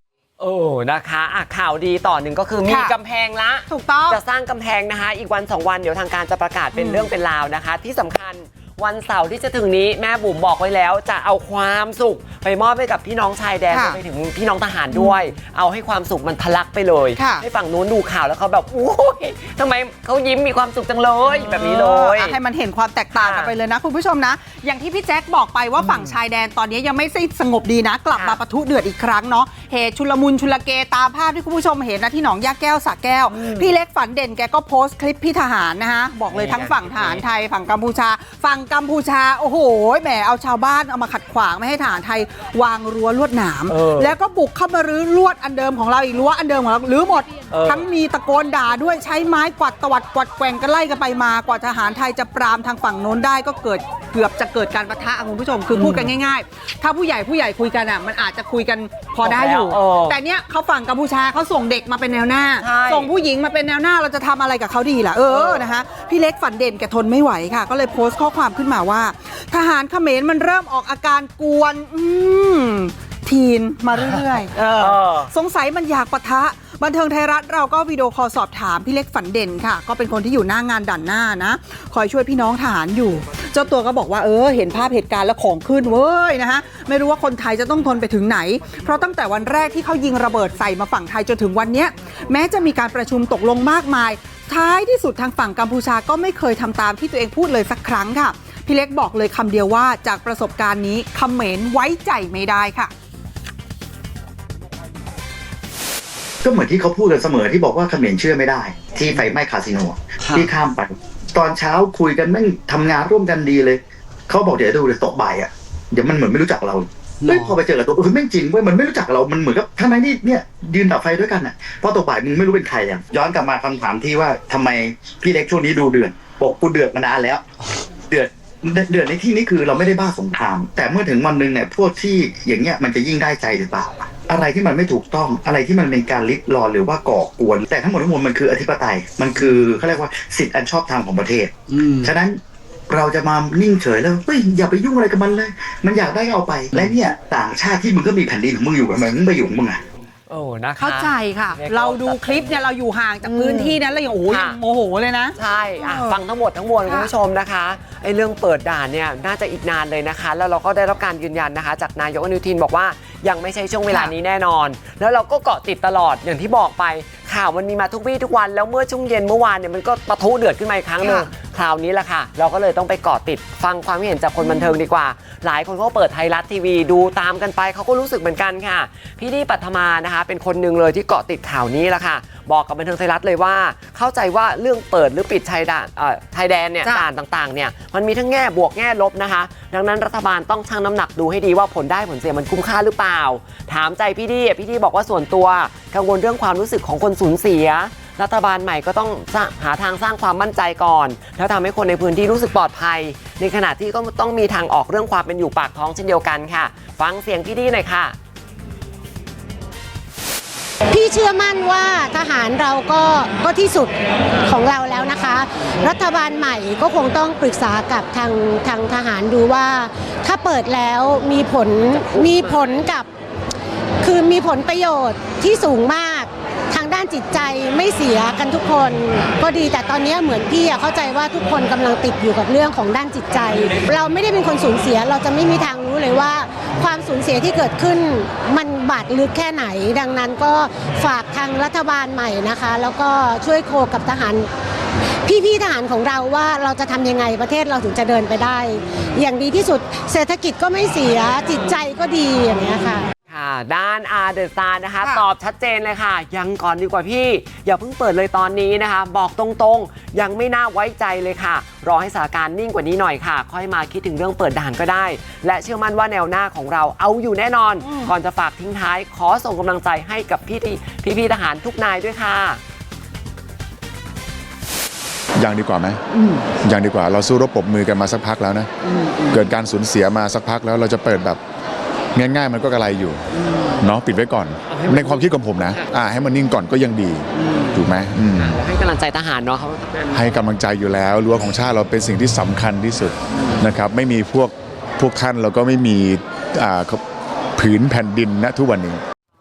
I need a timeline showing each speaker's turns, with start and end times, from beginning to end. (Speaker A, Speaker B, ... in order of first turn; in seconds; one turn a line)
Speaker A: 0.4-22.4
Speaker B: 2.6-2.9
Speaker B: 3.7-4.2
Speaker B: 6.7-7.1
Speaker B: 13.7-14.0
Speaker B: 14.9-15.2
Speaker B: 17.1-17.4
Speaker B: 21.2-102.9
Speaker A: 23.1-23.5
Speaker A: 25.8-26.1
Speaker A: 28.1-28.4
Speaker A: 33.3-33.7
Speaker A: 36.3-37.2
Speaker A: 43.7-44.1
Speaker A: 47.5-47.8
Speaker A: 55.7-56.1
Speaker A: 59.2-60.2
Speaker A: 62.6-63.1
Speaker A: 65.3-65.7
Speaker A: 74.8-75.3
Speaker C: 106.4-127.4
Speaker A: 110.2-110.5
Speaker A: 117.2-117.6
Speaker C: 128.1-149.8
Speaker A: 141.7-142.1
Speaker A: 150.3-152.6
Speaker B: 150.8-156.2
Speaker A: 153.2-154.6
Speaker A: 155.3-208.2
Speaker B: 171.0-171.3
Speaker B: 174.4-174.7
Speaker D: 210.9-223.1
Speaker D: 224.0-244.5
Speaker D: 245.2-253.1
Speaker A: 253.3-272.6
Speaker B: 267.8-268.1
Speaker E: 275.4-276.0
Speaker E: 276.6-278.7
Speaker E: 279.3-281.4
Speaker E: 282.1-283.2
Speaker E: 283.8-288.6
Speaker A: 284.7-285.9
Speaker A: 287.4-287.8
Speaker A: 288.3-290.4
Speaker E: 290.1-297.0
Speaker E: 297.6-299.0